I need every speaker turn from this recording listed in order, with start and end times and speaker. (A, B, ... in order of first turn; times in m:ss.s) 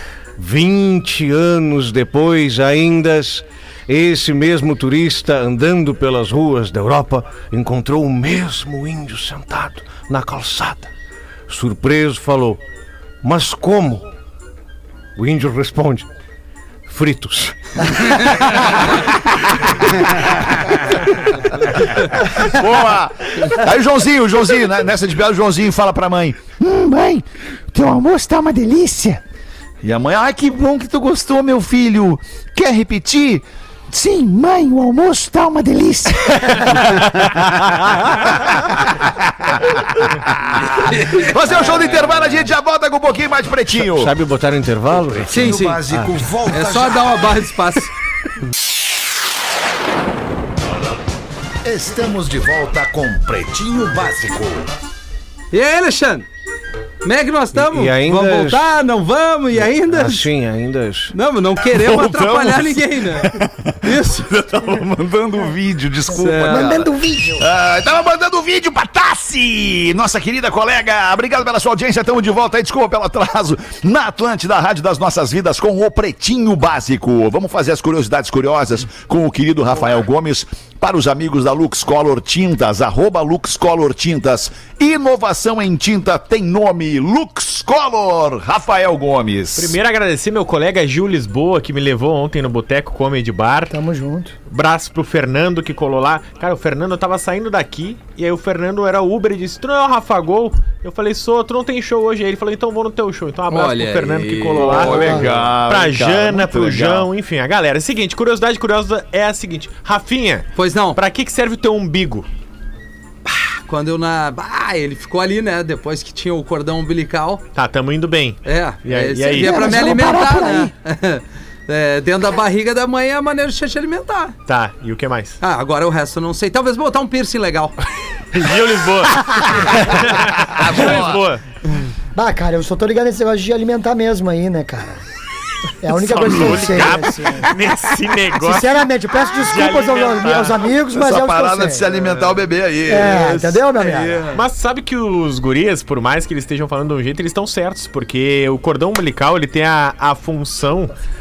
0:00.4-0:10.9 A
0:11.5-0:12.6 A
0:13.2-0:14.1 A
0:15.2-0:16.1 A
0:16.9-0:18.5 A
0:18.5-0:29.2 B
0:29.8-0:44.1 B
0:40.8-0:42.2 C
0:43.8-0:46.2 A
0:45.3-0:45.9 C
0:45.4-0:46.9 D
0:46.5-0:47.9 C
0:51.6-0:54.7 D
0:55.5-0:56.2 C
0:57.0-1:00.3 C
0:57.5-0:58.7 A
0:59.5-1:01.1 A
1:01.1-1:03.3 C
1:01.7-1:29.8 B
1:03.8-1:04.3 C
1:06.1-1:06.8 C
1:06.4-1:07.4 E
1:29.6-1:33.7 F
1:33.7-1:34.3 E
1:34.5-1:52.3 F
1:43.5-1:45.3 C
1:44.6-1:47.1 B
1:50.5-1:51.0 C
1:53.3-1:57.4 C
1:57.5-2:00.0 F
1:58.4-2:04.3 C
1:59.5-2:00.7 B
2:00.0-2:00.5 E
2:04.5-2:05.4 F
2:05.4-2:07.7 C
2:08.3-2:11.4 F
2:09.9-2:11.2 B
2:12.1-2:15.0 E
2:15.8-2:17.5 E
2:15.9-2:20.7 F
2:18.4-2:21.9 E
2:20.9-2:23.6 B
2:22.9-2:24.3 E
2:24.3-2:30.9 F